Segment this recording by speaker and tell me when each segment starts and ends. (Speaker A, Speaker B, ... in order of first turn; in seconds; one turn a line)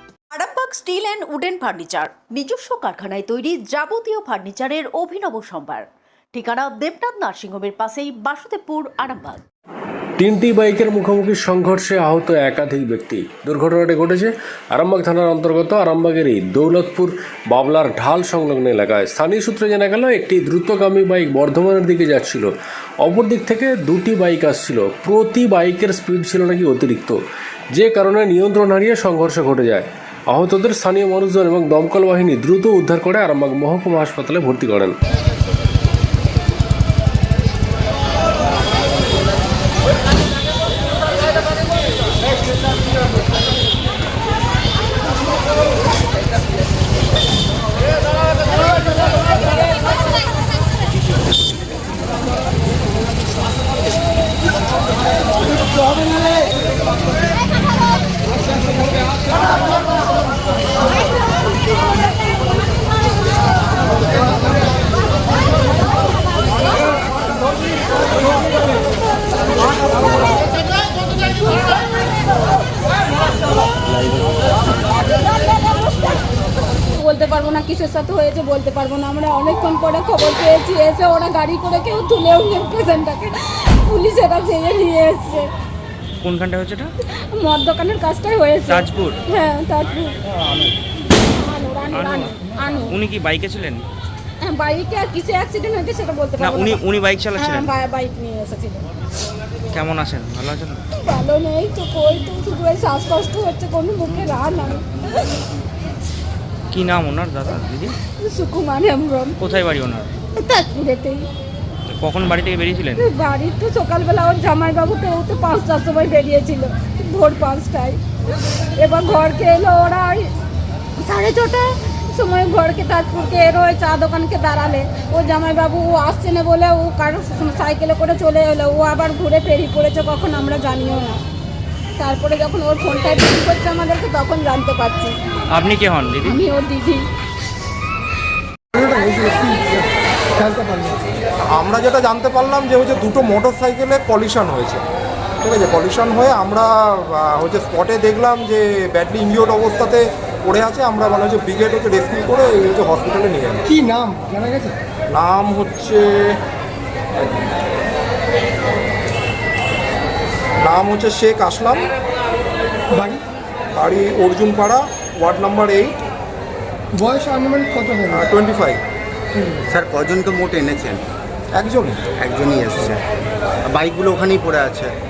Speaker A: 0.3-9.4
Speaker B: 10.2-27.2
Speaker B: 27.7-34.9
Speaker C: 75.0-85.5
Speaker D: 86.2-86.9
Speaker C: 87.3-90.1
Speaker D: 88.7-89.2
Speaker C: 91.2-93.0
Speaker D: 91.9-93.8
Speaker C: 94.4-96.8
Speaker D: 96.4-97.7
Speaker C: 97.3-98.9
Speaker D: 99.7-100.8
Speaker C: 101.0-105.2
Speaker D: 106.7-107.9
Speaker C: 108.2-109.4
Speaker D: 109.4-110.1
Speaker C: 110.3-111.3
Speaker D: 111.9-113.0
Speaker C: 113.0-118.0
Speaker C: 118.8-120.3
Speaker C: 121.0-131.2
Speaker C: 132.0-135.2
Speaker D: 135.5-136.4
Speaker C: 136.2-137.1
Speaker E: 138.7-141.0
Speaker F: 141.5-144.8
Speaker F: 145.4-153.6
Speaker E: 153.7-154.8
Speaker F: 155.1-156.4
Speaker F: 160.6-161.9
Speaker E: 162.9-163.2
Speaker F: 163.7-165.9
Speaker E: 167.0-168.2
Speaker F: 168.0-168.8
Speaker G: 169.7-171.0
Speaker F: 171.6-172.1
Speaker G: 172.2-173.0
Speaker G: 173.7-174.9